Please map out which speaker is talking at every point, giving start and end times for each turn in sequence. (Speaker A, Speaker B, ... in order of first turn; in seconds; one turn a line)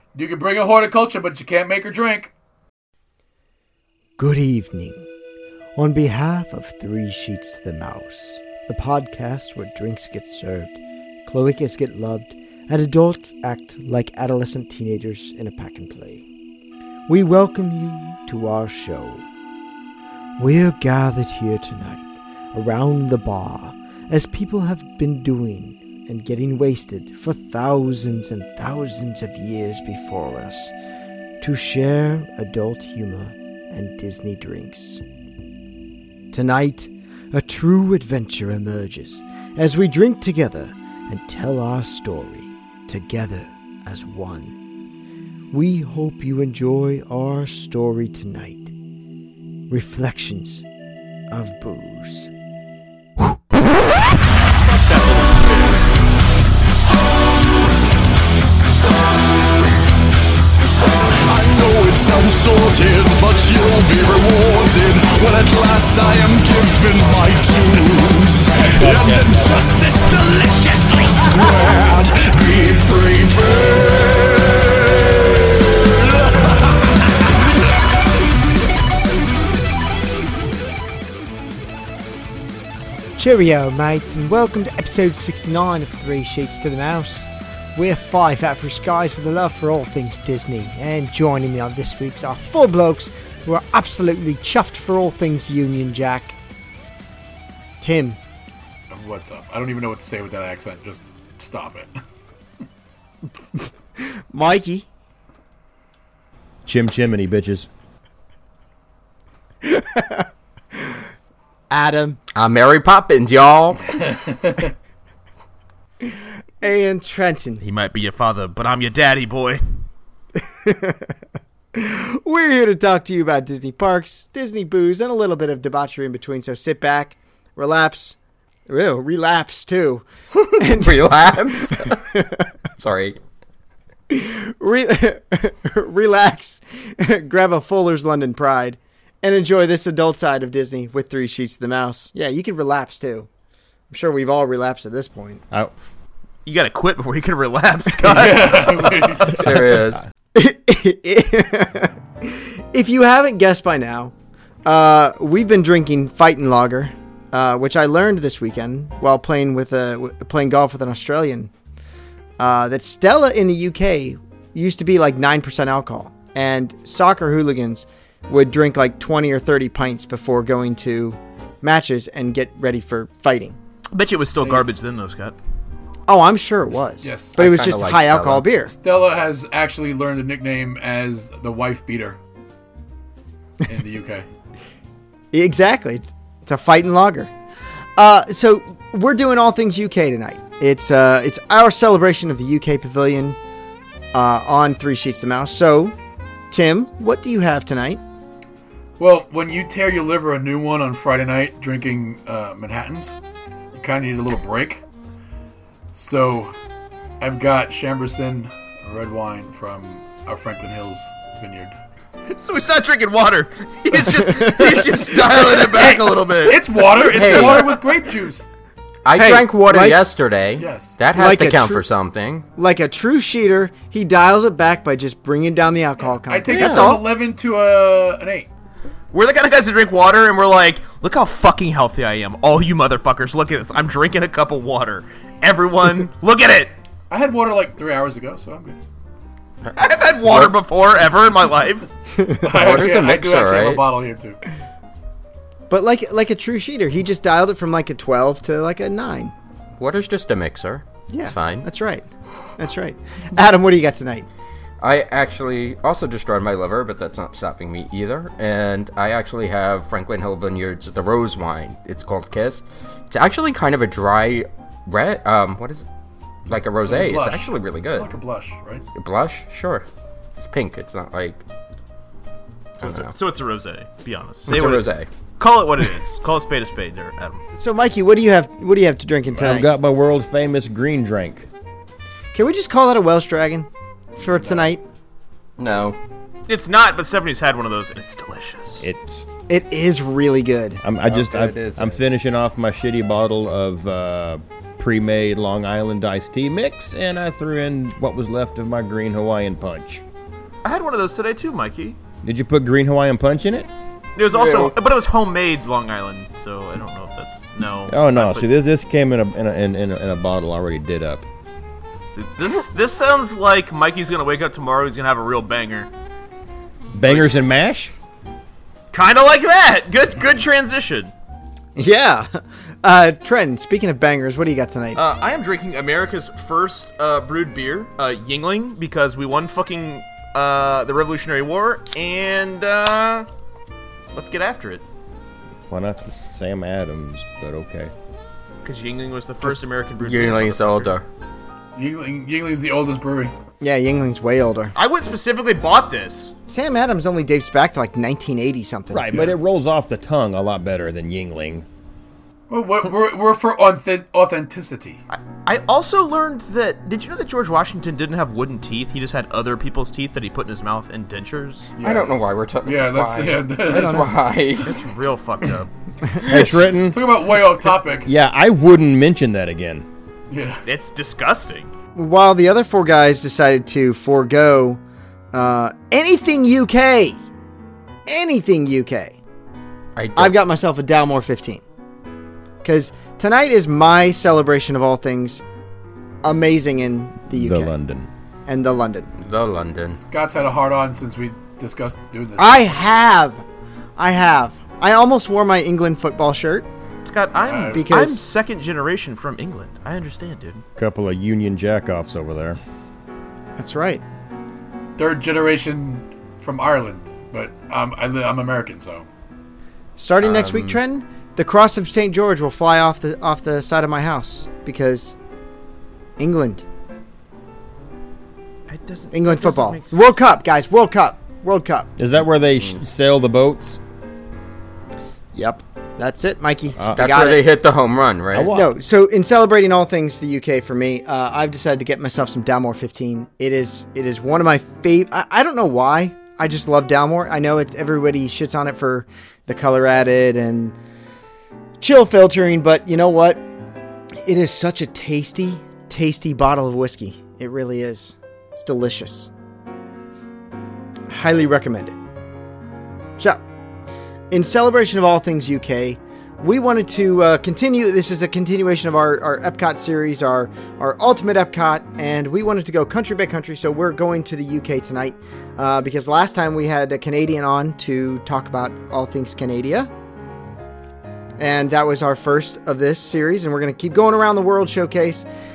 Speaker A: 0.1-2.3
Speaker B: 4.2-5.0
Speaker B: 5.8-16.3
Speaker B: 17.1-19.2
Speaker B: 20.4-30.7
Speaker B: 31.4-35.0
Speaker B: 36.3-44.5
Speaker B: 45.5-48.7
Speaker B: 49.7-50.6
Speaker B: 51.3-52.3
Speaker C: 54.6-55.9
Speaker D: 61.1-76.5
Speaker A: 68.5-69.9
Speaker B: 83.2-96.4
Speaker B: 97.8-98.2
Speaker A: 98.9-101.9
Speaker B: 103.5-104.9
Speaker E: 106.7-107.7
Speaker B: 109.6-111.0
Speaker B: 111.7-112.2
Speaker F: 112.3-114.0
Speaker A: 114.3-114.6
Speaker B: 116.1-117.6
Speaker C: 117.6-119.7
Speaker B: 120.6-121.1
Speaker B: 121.7-128.2
Speaker B: 128.7-131.2
Speaker F: 130.4-132.0
Speaker B: 131.8-132.4
Speaker F: 132.8-133.2
Speaker B: 134.1-143.3
Speaker B: 143.9-145.4
Speaker C: 146.4-149.4
Speaker A: 148.0-149.4
Speaker F: 149.3-150.0
Speaker B: 150.3-154.1
Speaker B: 154.7-161.5
Speaker B: 162.4-173.6
Speaker C: 173.9-175.4
Speaker A: 174.4-174.7
Speaker B: 176.1-178.7
Speaker A: 177.0-177.5
Speaker F: 177.4-178.5
Speaker A: 178.7-182.2
Speaker A: 183.7-184.2
Speaker B: 185.3-187.3
Speaker B: 188.0-193.4
Speaker B: 194.1-195.9
Speaker B: 196.5-198.0
Speaker A: 199.0-203.2
Speaker A: 203.7-204.8
Speaker A: 205.9-206.6
Speaker A: 207.2-211.7
Speaker C: 212.3-217.7
Speaker B: 214.3-214.8
Speaker A: 215.5-218.5
Speaker F: 217.1-217.7
Speaker F: 219.1-222.5
Speaker B: 219.1-220.1
Speaker A: 220.6-221.0
Speaker B: 221.1-221.8
Speaker B: 222.6-227.0
Speaker A: 226.3-228.5
Speaker C: 226.5-227.0
Speaker C: 229.1-236.7
Speaker A: 237.1-238.8
Speaker F: 239.7-240.6
Speaker C: 239.8-241.9
Speaker B: 242.2-242.5
Speaker A: 242.3-244.4
Speaker F: 242.5-243.8
Speaker B: 245.7-249.3
Speaker F: 249.8-251.7
Speaker B: 251.1-252.1
Speaker B: 252.6-254.2
Speaker F: 254.8-265.9
Speaker F: 266.4-268.1
Speaker A: 266.9-268.9
Speaker F: 268.9-269.9
Speaker F: 270.4-271.4
Speaker F: 272.8-273.1
Speaker C: 272.8-277.4
Speaker F: 274.5-275.1
Speaker B: 277.5-279.7
Speaker E: 279.4-281.5
Speaker B: 282.3-284.8
Speaker F: 285.6-286.0
Speaker C: 286.5-288.8
Speaker E: 288.8-289.3
Speaker B: 289.5-290.8
Speaker E: 290.8-300.0
Speaker F: 291.0-292.0
Speaker C: 300.6-302.0
Speaker E: 302.2-303.7
Speaker C: 304.2-308.5
Speaker F: 304.3-304.7
Speaker E: 307.9-311.2
Speaker C: 312.1-315.9
Speaker E: 316.9-317.9
Speaker C: 317.0-317.3
Speaker C: 318.9-321.1
Speaker B: 321.8-325.0
Speaker C: 324.9-333.3
Speaker C: 334.1-334.8
Speaker E: 335.7-337.9
Speaker C: 338.6-340.9
Speaker F: 340.0-341.1
Speaker A: 341.8-343.3
Speaker B: 343.6-344.7
Speaker C: 344.8-346.3
Speaker B: 346.5-349.3
Speaker E: 348.9-351.6
Speaker A: 352.5-355.0
Speaker C: 355.1-361.8
Speaker A: 361.8-364.2
Speaker F: 361.8-364.8
Speaker B: 363.8-364.1
Speaker C: 364.6-366.4
Speaker E: 366.2-367.1
Speaker A: 366.9-368.1
Speaker E: 368.1-369.9
Speaker A: 370.3-370.6
Speaker C: 370.6-371.7
Speaker B: 371.9-374.8
Speaker B: 375.3-377.2
Speaker B: 378.1-379.2
Speaker F: 379.9-380.4
Speaker B: 380.2-381.6
Speaker B: 382.6-385.4
Speaker B: 386.2-387.8
Speaker E: 387.3-388.1
Speaker B: 388.5-389.1
Speaker F: 389.2-390.0
Speaker A: 389.9-392.7
Speaker B: 392.4-393.4
Speaker B: 394.0-396.7
Speaker C: 397.1-400.6
Speaker A: 397.4-397.8
Speaker B: 397.7-398.2
Speaker E: 400.8-402.6
Speaker B: 403.6-404.0
Speaker A: 405.0-409.1
Speaker B: 410.0-415.1
Speaker F: 410.2-410.8
Speaker B: 416.2-416.6
Speaker C: 418.7-420.2
Speaker B: 419.1-421.9
Speaker E: 422.0-423.8
Speaker B: 425.3-427.5
Speaker E: 426.8-427.1
Speaker F: 426.9-428.6
Speaker E: 428.3-428.7
Speaker B: 428.5-440.8
Speaker B: 441.8-443.4
Speaker B: 444.2-449.3
Speaker B: 451.1-452.0
Speaker B: 454.3-469.9
Speaker B: 471.4-475.2